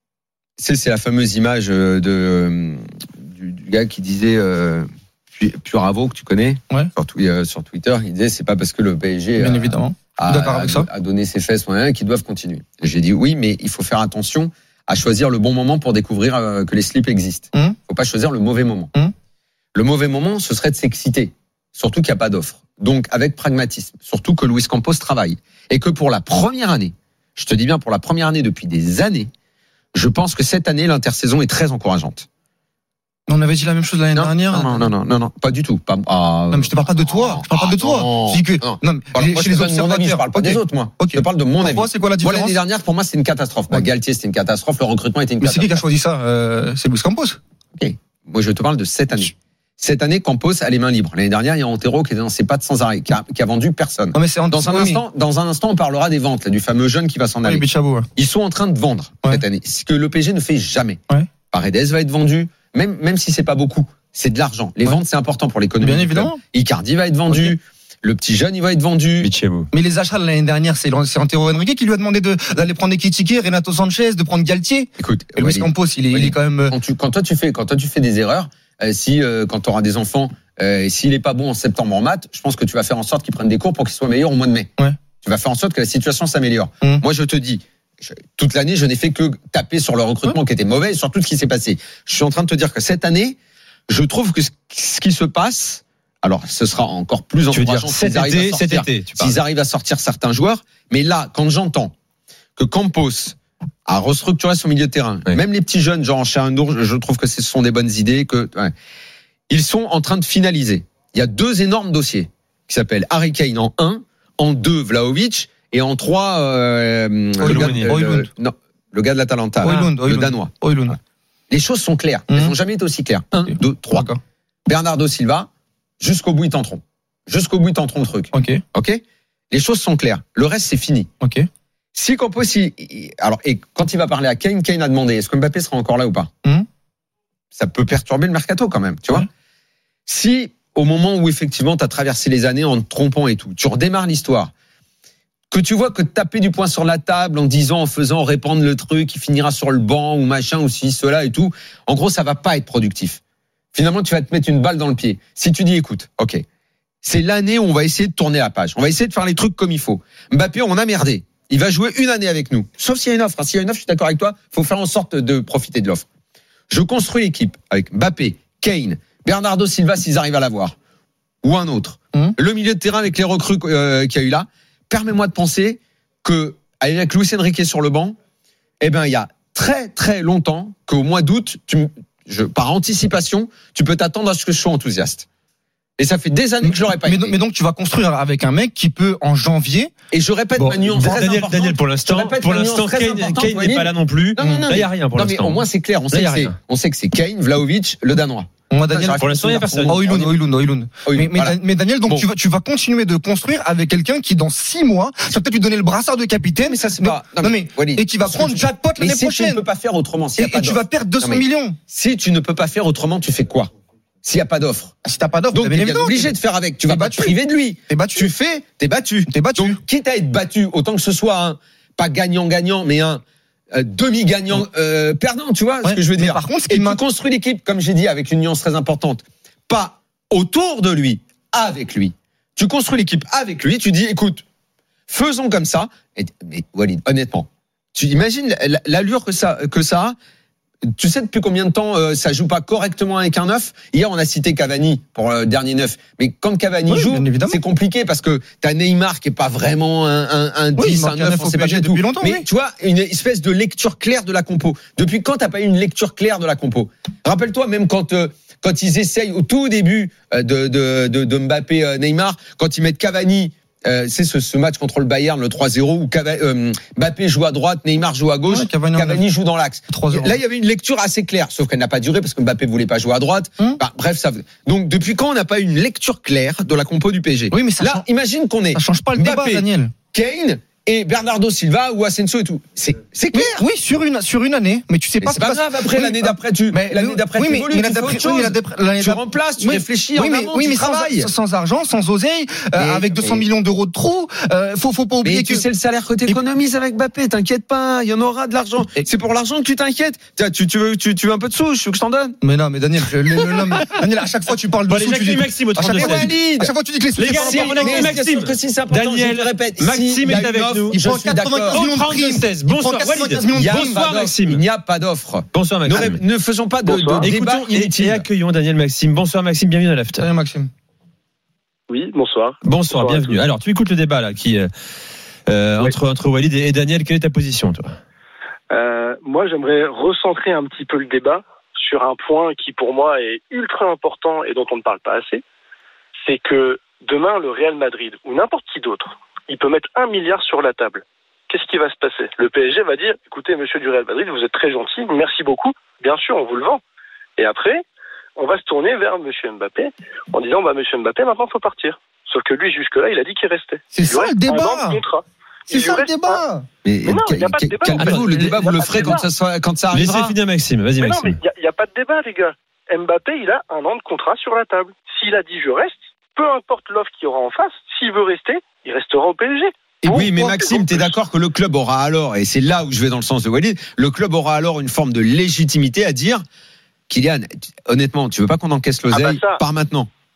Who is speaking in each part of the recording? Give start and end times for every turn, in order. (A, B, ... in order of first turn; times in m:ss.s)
0:00.6-0:18.9 A
0:09.4-0:10.9 B
0:19.7-0:29.3 A
0:29.9-0:32.2 A
0:33.3-0:34.9 B
0:34.1-0:45.8 A
0:36.5-0:42.6 B
0:45.4-0:47.4 B
0:47.8-0:57.6 A
0:54.1-0:55.0 B
0:57.4-0:58.1 B
0:58.2-1:01.0 A
1:01.5-1:09.3 A
1:05.8-1:06.4 B
1:07.3-1:07.6 B
1:09.2-1:09.7 C
1:09.7-1:16.8 B
1:15.0-1:24.7 A
1:25.2-1:33.4 A
1:33.9-1:41.9 A
1:37.5-1:39.4 C
1:42.6-1:43.4 A
1:43.9-1:48.7 A
1:49.5-2:01.0 A
1:57.4-1:57.9 C
1:57.4-1:58.3 B
1:59.6-2:01.0 B
2:01.5-2:04.1 A
2:02.3-2:02.5 B
2:03.4-2:04.2 B
2:04.7-2:05.5 A
2:06.0-2:11.1 A
2:08.3-2:08.6 B
2:11.2-2:11.5 B
2:11.9-2:16.3 A
2:17.5-2:19.3 A
2:20.1-2:24.5 A
2:25.5-2:33.2 A
2:33.7-2:36.4 A
2:37.0-2:46.0 A
2:46.7-2:50.7 A
2:51.4-2:58.2 A
2:58.8-3:05.2 A
3:06.0-3:07.4 A
3:06.6-3:09.9 B
3:10.1-3:20.4 A
3:10.6-3:11.0 B
3:11.0-3:16.5 C
3:14.4-3:14.8 B
3:18.7-3:29.6 B
3:19.1-3:20.0 C
3:21.0-3:22.3 A
3:26.6-3:33.7 A
3:30.4-3:31.8 B
3:34.2-3:34.9 A
3:35.0-3:36.3 B
3:35.5-3:54.4 A
3:36.9-3:37.4 B
3:37.9-3:38.3 B
3:39.2-3:39.8 B
3:45.8-3:47.0 B
3:55.1-4:00.2 A
4:01.0-4:43.6 A
4:06.9-4:07.6 B
4:10.8-4:12.4 B
4:28.5-4:29.2 B
4:29.9-4:30.4 B
4:37.5-4:38.0 B
4:38.7-4:39.9 B
4:43.3-4:55.6 B
4:45.2-4:51.3 A
4:52.7-4:53.4 A
4:55.2-5:02.4 A
5:02.4-5:08.1 B
5:04.9-5:06.3 C
5:05.9-5:06.7 A
5:07.2-5:11.0 C
5:07.2-5:11.8 A
5:10.9-5:14.0 B
5:11.7-5:14.6 C
5:13.5-5:18.2 A
5:15.5-5:16.2 C
5:16.8-5:17.3 D
5:17.2-5:20.3 C
5:20.2-5:20.7 B
5:21.9-5:23.4 D
5:22.6-5:24.7 C
5:25.5-5:27.9 C
5:28.7-5:35.4 D
5:36.2-5:46.8 D
5:47.4-5:47.8 D
5:48.4-5:56.4 D
5:53.9-5:55.0 B
5:55.7-5:56.7 B
5:56.8-6:00.4 A
5:57.0-5:59.2 D
5:57.9-5:59.2 C
5:59.9-6:01.4 C
6:01.0-6:11.1 D
6:10.1-6:16.4 A
6:17.1-6:20.1 A
6:19.1-6:19.6 D